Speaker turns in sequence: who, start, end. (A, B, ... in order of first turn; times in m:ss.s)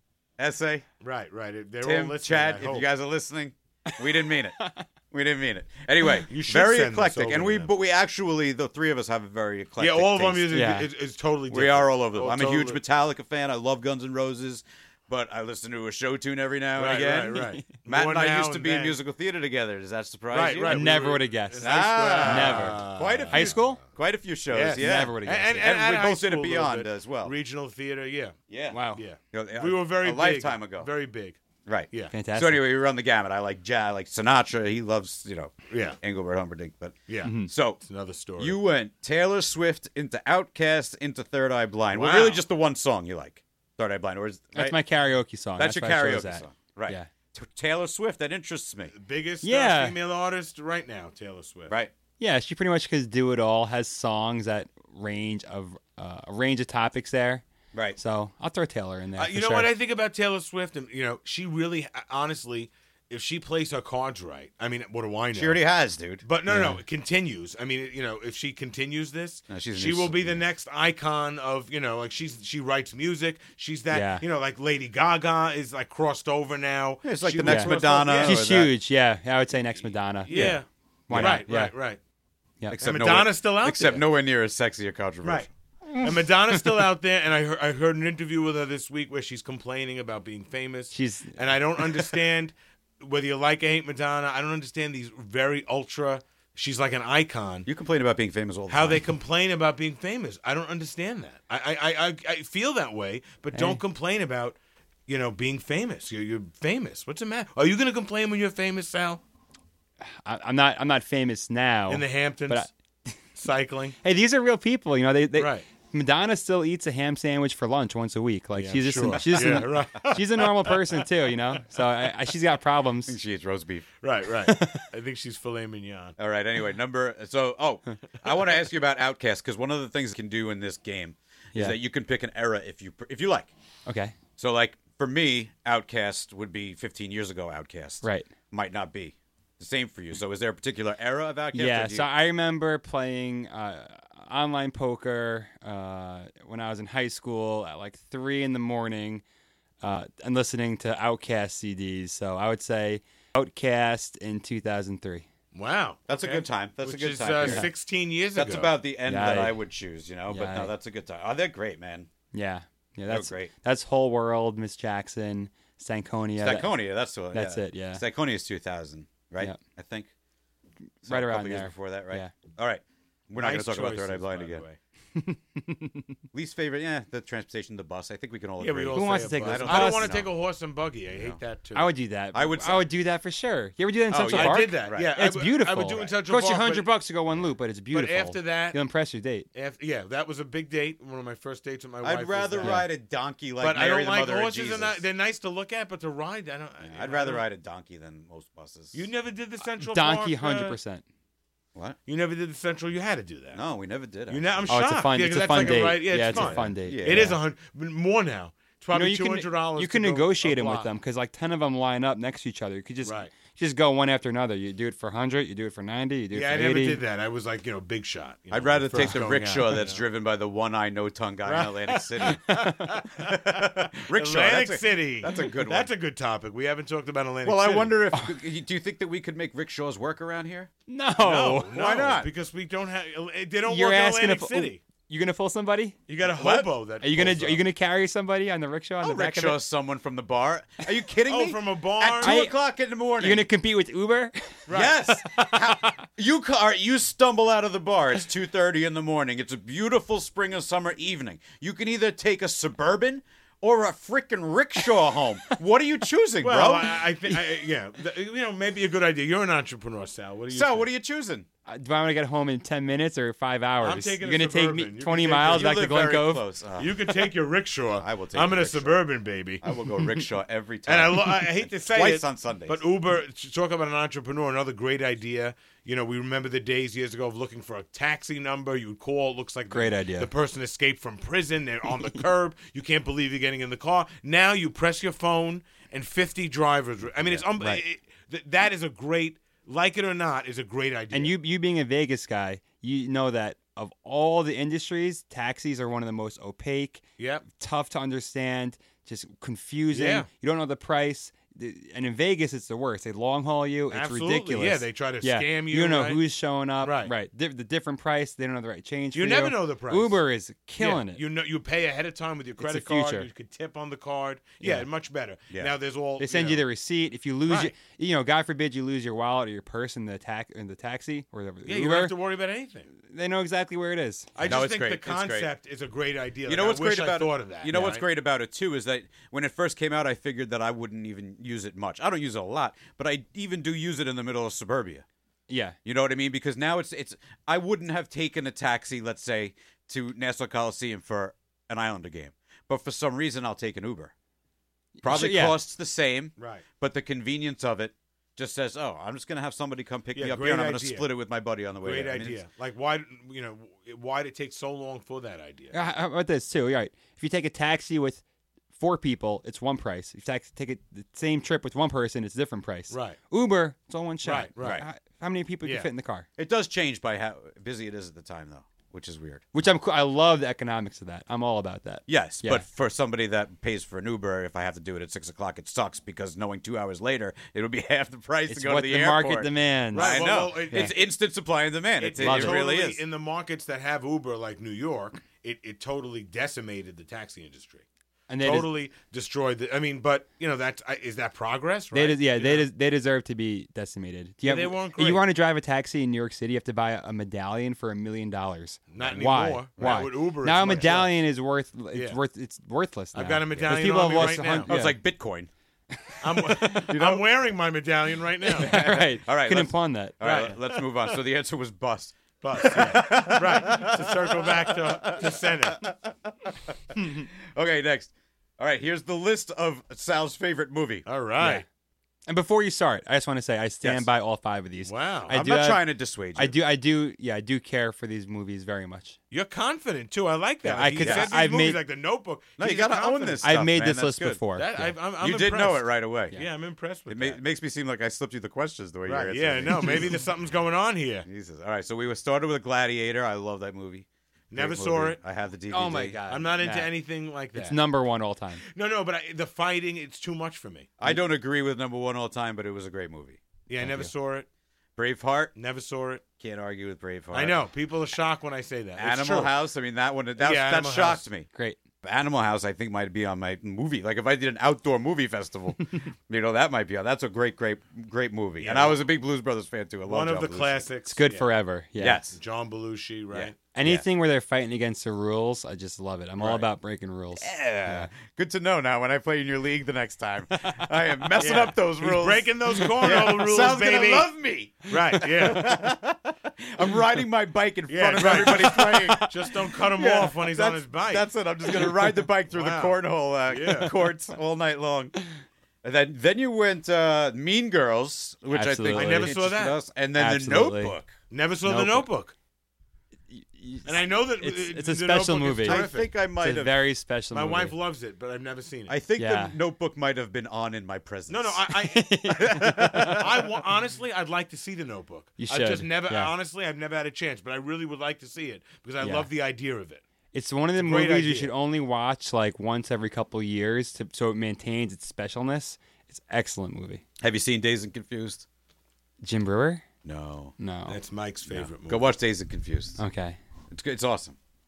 0:00.4-0:00.8 A
0:01.0-0:02.9 B
0:01.8-0:04.6 A
0:04.6-0:04.8 C
0:05.1-0:10.5 A
0:06.3-0:07.7 B
0:09.8-0:12.8 B
0:10.5-0:10.9 C
0:11.5-0:20.9 A
0:16.8-0:19.0 B
0:20.3-0:23.8 B
0:20.7-0:21.7 C
0:21.6-0:27.3 A
0:22.2-0:23.8 C
0:24.5-0:28.4 B
0:24.8-0:25.6 C
0:28.5-0:28.8 A
0:28.7-0:29.0 C
0:28.9-0:31.4 B
0:29.3-0:30.9 A
0:31.6-0:37.8 A
0:32.1-0:32.6 C
0:35.7-0:36.0 B
0:37.1-0:38.6 B
0:37.2-0:37.5 C
0:38.4-0:44.8 A
0:41.9-0:42.4 B
0:44.5-0:47.1 C
0:45.6-0:48.9 A
0:48.9-0:51.7 B
0:49.4-0:50.0 C
0:52.2-0:57.4 C
0:57.7-0:58.0 A
0:58.0-0:59.7 C
0:59.2-1:05.6 B
1:05.3-1:06.2 A
1:06.2-1:18.4 B
1:06.5-1:06.8 C
1:09.5-1:10.4 A
1:13.9-1:14.2 C
1:17.0-1:18.7 A
1:17.4-1:20.6 C
1:20.3-1:22.0 B
1:20.3-1:21.4 A
1:21.1-1:21.7 C
1:22.7-1:25.5 A
1:22.8-1:24.0 B
1:25.2-1:25.5 B
1:26.0-1:37.7 B
1:30.9-1:31.4 C
1:37.6-1:39.0 A
1:38.7-1:44.6 B
1:43.5-1:43.8 C
1:45.1-1:49.2 B
1:50.1-1:53.1 C
1:51.9-1:52.6 B
1:53.4-1:54.0 B
1:54.0-2:03.2 C
1:55.4-1:55.6 B
1:58.6-2:01.0 B
2:03.1-2:03.9 A
2:04.0-2:06.2 B
2:04.4-2:04.9 C
2:06.2-2:13.5 A
2:13.9-2:14.1 C
2:14.4-2:22.1 A
2:18.0-2:18.3 C
2:21.5-2:29.2 C
2:29.8-2:35.2 C
2:35.5-2:38.7 B
2:36.1-2:37.7 A
2:37.4-2:37.7 C
2:38.3-2:42.1 A
2:39.0-2:39.6 C
2:40.3-2:40.7 C
2:42.3-2:46.7 C
2:43.1-2:43.5 A
2:46.4-2:50.1 A
2:47.3-2:48.0 C
2:51.0-2:54.6 A
2:51.0-2:52.3 C
2:53.4-2:54.8 B
2:55.1-2:56.1 C
2:56.3-3:00.3 A
2:58.6-3:01.9 B
2:58.9-3:00.2 C
3:01.1-3:01.4 A
3:01.7-3:09.4 C
3:02.3-3:02.8 A
3:04.1-3:05.1 A
3:04.3-3:06.9 B
3:07.9-3:08.8 B
3:09.5-3:12.8 B
3:12.0-3:15.0 A
3:12.6-3:12.9 C
3:13.6-3:17.4 B
3:16.8-3:19.0 A
3:18.9-3:20.8 B
3:19.8-3:21.0 C
3:22.1-3:23.6 B
3:23.5-3:24.7 A
3:24.3-3:30.9 B
3:24.7-3:27.4 C
3:26.3-3:27.3 A
3:28.9-3:37.0 C
3:33.0-3:33.3 B
3:36.3-3:40.0 B
3:38.5-3:42.7 A
3:38.9-3:39.2 C
3:41.4-3:48.0 B
3:42.5-3:42.8 C
3:43.2-3:45.9 A
3:47.4-3:50.7 A
3:50.9-3:51.7 C
3:51.2-3:54.8 B
3:51.7-3:52.3 A
3:53.7-3:56.0 C
3:56.1-3:57.6 B
3:56.2-3:56.7 A
3:57.0-3:59.6 C
3:59.0-4:03.5 A
4:01.3-4:02.4 B
4:02.2-4:02.5 C
4:03.2-4:06.0 C
4:04.7-4:05.0 B
4:04.7-4:17.1 A
4:16.4-4:20.9 B
4:20.5-4:21.4 A
4:21.6-4:26.4 C
4:23.8-4:25.7 B
4:25.4-4:27.3 A
4:26.8-4:29.6 B
4:28.0-4:29.0 A
4:29.6-4:32.8 A
4:30.8-4:51.3 B
4:39.7-4:40.3 C
4:47.2-4:47.8 A
4:51.1-5:11.2 C
4:57.2-4:57.4 B
4:59.9-5:00.3 B
5:03.9-5:06.2 B
5:06.8-5:07.1 B
5:09.1-5:10.2 B
5:10.8-5:16.6 B
5:12.6-5:13.3 C
5:14.6-5:14.9 C
5:16.2-5:22.1 C
5:17.5-5:17.7 B
5:21.6-5:22.9 B
5:23.0-5:24.3 C
5:24.4-5:28.0 B
5:24.4-5:25.5 A
5:26.5-5:35.0 A
5:27.7-5:28.0 C
5:35.5-5:35.8 C
5:35.8-5:44.1 A
5:45.0-5:45.6 C
5:45.0-5:52.4 A
5:46.4-5:46.6 B
5:50.1-5:51.1 B
5:51.8-5:55.8 B
5:55.7-5:58.2 C
5:58.7-6:06.3 C
6:02.9-6:03.2 B
6:04.2-6:04.8 B
6:04.6-6:04.8 A
6:06.4-6:09.4 A
6:09.5-6:12.6 C
6:12.1-6:23.0 A
6:18.5-6:20.8 C
6:19.9-6:21.0 B
6:22.0-6:27.8 B
6:22.2-6:22.6 C
6:28.3-6:28.7 C
6:28.4-6:32.7 B
6:31.9-6:45.0 C
6:34.4-6:35.2 B
6:38.9-6:41.2 B
6:43.1-6:44.8 B
6:43.6-6:45.5 A
6:46.2-6:48.7 B
6:46.3-6:46.9 C
6:46.8-6:47.2 A
6:48.5-7:01.0 A
6:48.5-6:50.2 C
6:50.2-6:50.9 B
6:52.4-6:55.9 B
6:57.0-6:57.2 C
7:01.0-7:01.6 B
7:01.4-7:01.6 C
7:02.3-7:05.8 C
7:04.8-7:05.3 B
7:05.3-7:06.6 A
7:06.3-7:09.2 C
7:09.3-7:13.5 B
7:10.6-7:11.8 C
7:11.0-7:11.3 A
7:12.6-7:14.4 A
7:13.4-7:14.9 C
7:14.5-7:17.4 B
7:15.2-7:16.4 A
7:17.1-7:20.2 A
7:19.0-7:21.3 B
7:21.2-7:26.2 A
7:24.5-7:25.2 B
7:25.7-7:26.9 C
7:26.3-7:27.8 B
7:27.5-7:28.6 C
7:28.6-7:31.0 B
7:31.0-7:33.4 A
7:33.7-7:34.4 B
7:33.8-7:34.1 C
7:35.0-7:35.5 A
7:35.6-7:36.2 B
7:36.4-7:37.6 A
7:37.3-7:39.5 B
7:39.0-7:41.5 A
7:40.4-7:41.2 B
7:41.5-7:41.8 C
7:42.0-7:50.8 A
7:48.6-7:49.0 B
7:50.0-7:51.5 B
7:51.1-7:52.2 C
7:52.0-7:52.4 A
7:52.3-7:53.6 B
7:53.3-7:54.0 A
7:53.7-7:58.1 C
7:57.4-8:09.3 A
8:00.5-8:00.8 C
8:01.4-8:04.3 B
8:04.8-8:05.8 B
8:07.9-8:11.3 B
8:08.3-8:09.3 C
8:09.9-8:15.2 A
8:12.5-8:14.0 B
8:15.8-8:21.1 A
8:18.5-8:19.4 C
8:18.9-8:19.8 B
8:20.2-8:21.0 C
8:21.3-8:22.3 B
8:21.6-8:22.1 C
8:23.3-8:27.8 C
8:23.8-8:26.1 B
8:25.6-8:26.8 A
8:27.3-8:29.0 B
8:28.9-8:31.7 A
8:29.2-8:29.5 C
8:31.3-8:40.0 B
8:31.7-8:33.2 C
8:32.3-8:33.3 A
8:35.4-8:36.3 C
8:39.0-8:39.3 C
8:40.3-8:47.0 C
8:40.8-8:41.5 B
8:47.2-8:48.4 A
8:49.2-8:49.8 C
8:50.0-8:50.5 A
8:50.6-8:51.0 C
8:50.9-8:52.1 B
8:51.5-8:53.0 A
8:53.0-8:53.4 C
8:53.7-8:54.4 A